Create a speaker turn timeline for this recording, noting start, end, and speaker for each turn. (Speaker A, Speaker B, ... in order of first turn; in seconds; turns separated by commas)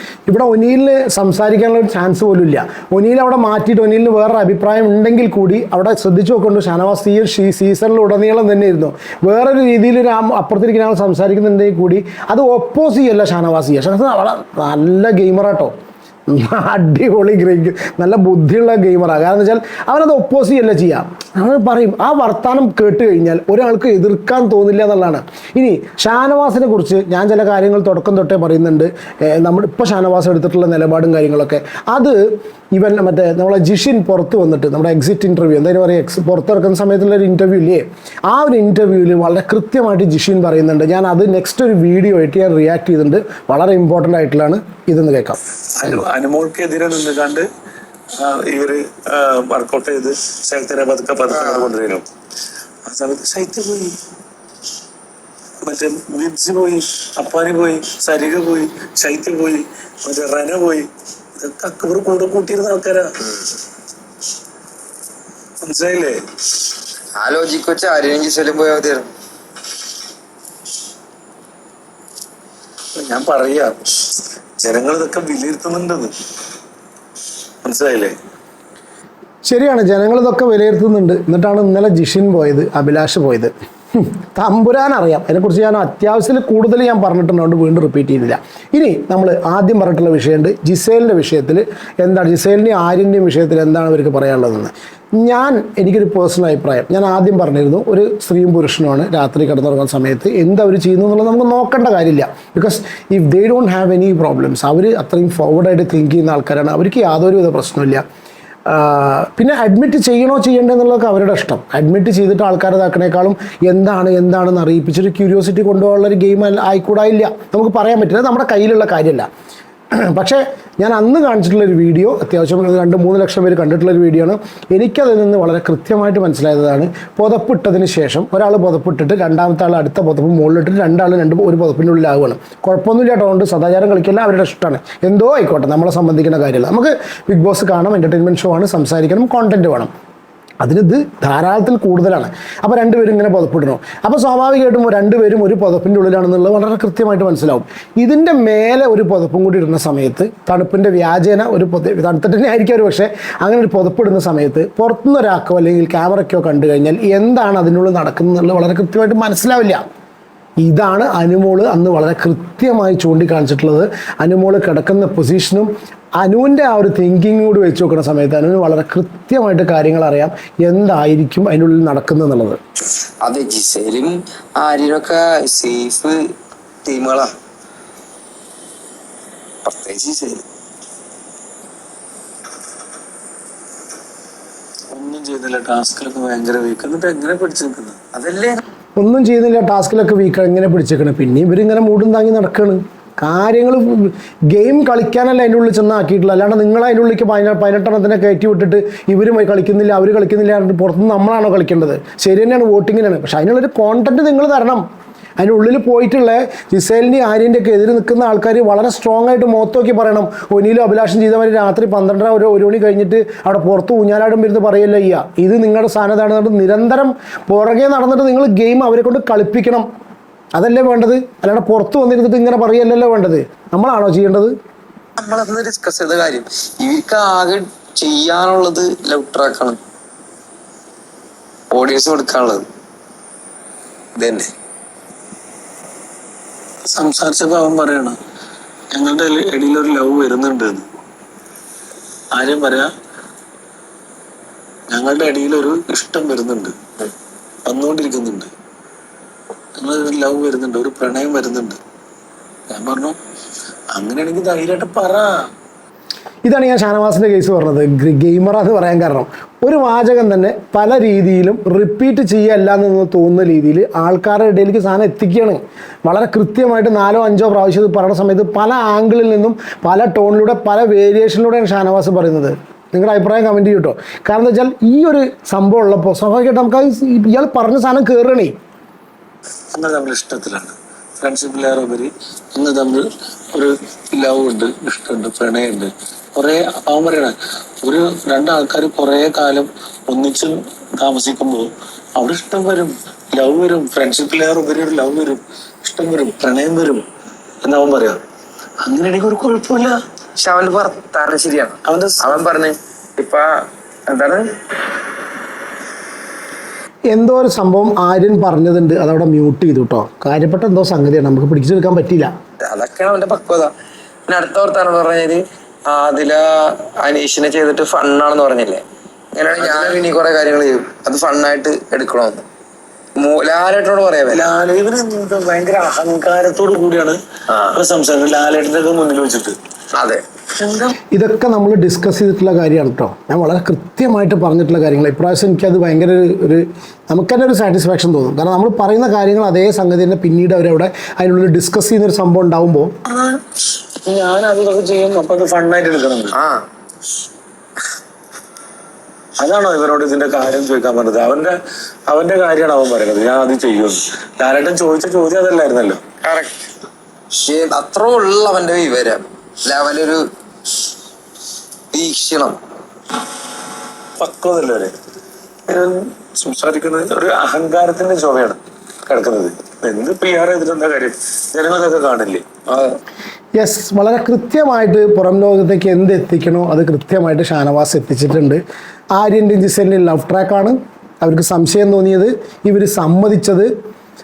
Speaker A: 0.3-15.7, Speaker A: 16.3-32.2, Speaker A: 32.7-45.4, Speaker B: 45.8-47.5, Speaker B: 48.2-52.0, Speaker C: 51.3-51.7, Speaker B: 52.9-54.0, Speaker B: 55.6-63.1, Speaker B: 65.6-66.2, Speaker C: 67.2-69.1, Speaker B: 72.9-73.8, Speaker B: 74.6-76.1, Speaker B: 77.6-78.1, Speaker A: 79.5-108.0, Speaker A: 108.7-119.3, Speaker A: 120.0-139.9, Speaker A: 140.6-159.8, Speaker A: 160.6-165.7, Speaker A: 166.2-172.6, Speaker C: 173.2-176.2, Speaker C: 176.8-177.3, Speaker C: 179.6-180.4, Speaker B: 184.9-188.0, Speaker C: 188.1-188.6, Speaker A: 189.0-204.8, Speaker A: 205.4-219.8, Speaker A: 220.5-224.5, Speaker C: 225.2-229.8, Speaker C: 231.7-232.6, Speaker C: 234.2-234.5, Speaker B: 236.8-238.2, Speaker B: 238.9-240.8, Speaker B: 242.3-242.9, Speaker B: 244.9-246.7, Speaker B: 247.7-248.5, Speaker B: 249.8-251.8, Speaker B: 252.7-253.2, Speaker B: 253.9-255.3, Speaker A: 256.4-278.5, Speaker B: 279.7-297.0, Speaker B: 297.6-298.2, Speaker B: 298.8-299.9, Speaker C: 300.4-304.4, Speaker B: 301.9-302.4, Speaker A: 307.1-312.3, Speaker C: 312.6-313.7, Speaker C: 314.3-318.8, Speaker C: 319.3-322.4, Speaker B: 319.6-320.0, Speaker C: 323.2-324.4, Speaker B: 324.3-327.2, Speaker C: 327.5-327.8, Speaker B: 327.7-329.5, Speaker C: 329.9-330.2, Speaker B: 330.6-331.0, Speaker A: 331.1-342.9, Speaker B: 343.1-343.4, Speaker B: 344.0-346.3, Speaker C: 346.3-346.6, Speaker B: 349.4-351.6, Speaker B: 352.1-356.0, Speaker C: 356.2-356.7, Speaker C: 357.4-360.2, Speaker C: 361.9-362.6, Speaker B: 364.2-364.9, Speaker B: 365.7-372.5, Speaker C: 372.7-373.0, Speaker A: 373.6-378.6, Speaker A: 379.1-383.7